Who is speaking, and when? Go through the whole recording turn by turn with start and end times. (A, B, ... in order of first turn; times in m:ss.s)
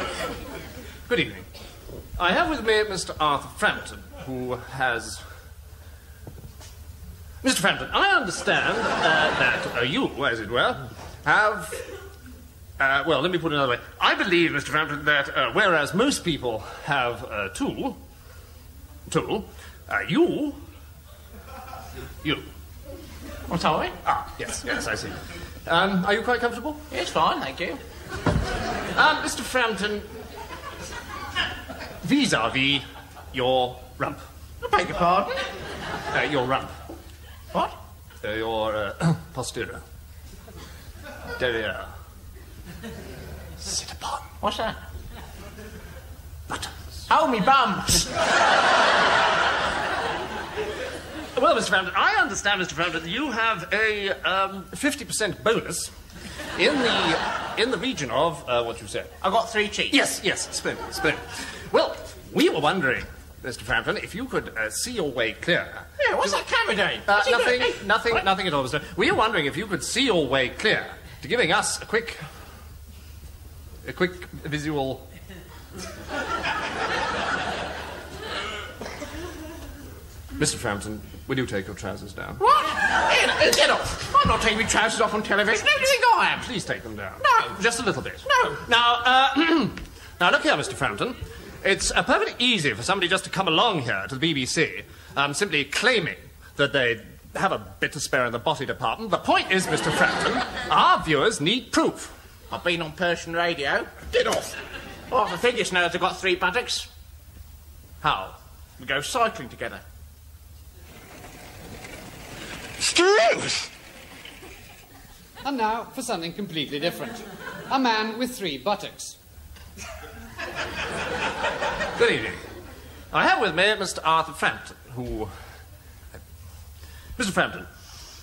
0:01.1-0:01.5 A
0:02.2-0:05.2 A
0:07.4-0:11.8 A
0:12.8-0:18.0 A
0:19.1-0:20.6 A
0:23.5-0:24.0 B
0:24.0-0:26.9 A
0:26.9-0:27.8 B
0:28.9-0:30.1 A
0:32.0-0:34.2 A
0:34.6-0:35.4 B
0:36.1-0:36.7 A
0:38.2-0:39.8 A
0:41.4-0:41.9 A
0:43.6-0:44.3 A
0:44.4-0:44.8 B
0:46.5-0:46.8 A
0:47.1-0:48.2 B
0:51.3-0:55.9 A
0:56.6-0:59.2 A
0:59.2-0:59.9 B
0:59.9-1:06.4 A
1:06.0-1:08.0 B
1:07.0-1:12.2 A
1:13.8-1:15.0 A
1:20.4-1:22.4 A
1:22.4-1:26.4 B
1:26.2-1:42.1 A
1:27.2-1:27.6 B
1:28.2-1:28.6 B
1:42.5-1:44.6 B
1:45.1-1:46.9 B
1:48.0-1:48.4 A
1:48.8-1:49.8 B
1:52.8-1:53.7 B
1:55.4-1:59.2 C
2:02.0-2:02.4 A
2:03.1-2:05.3 A
2:07.2-2:07.7 A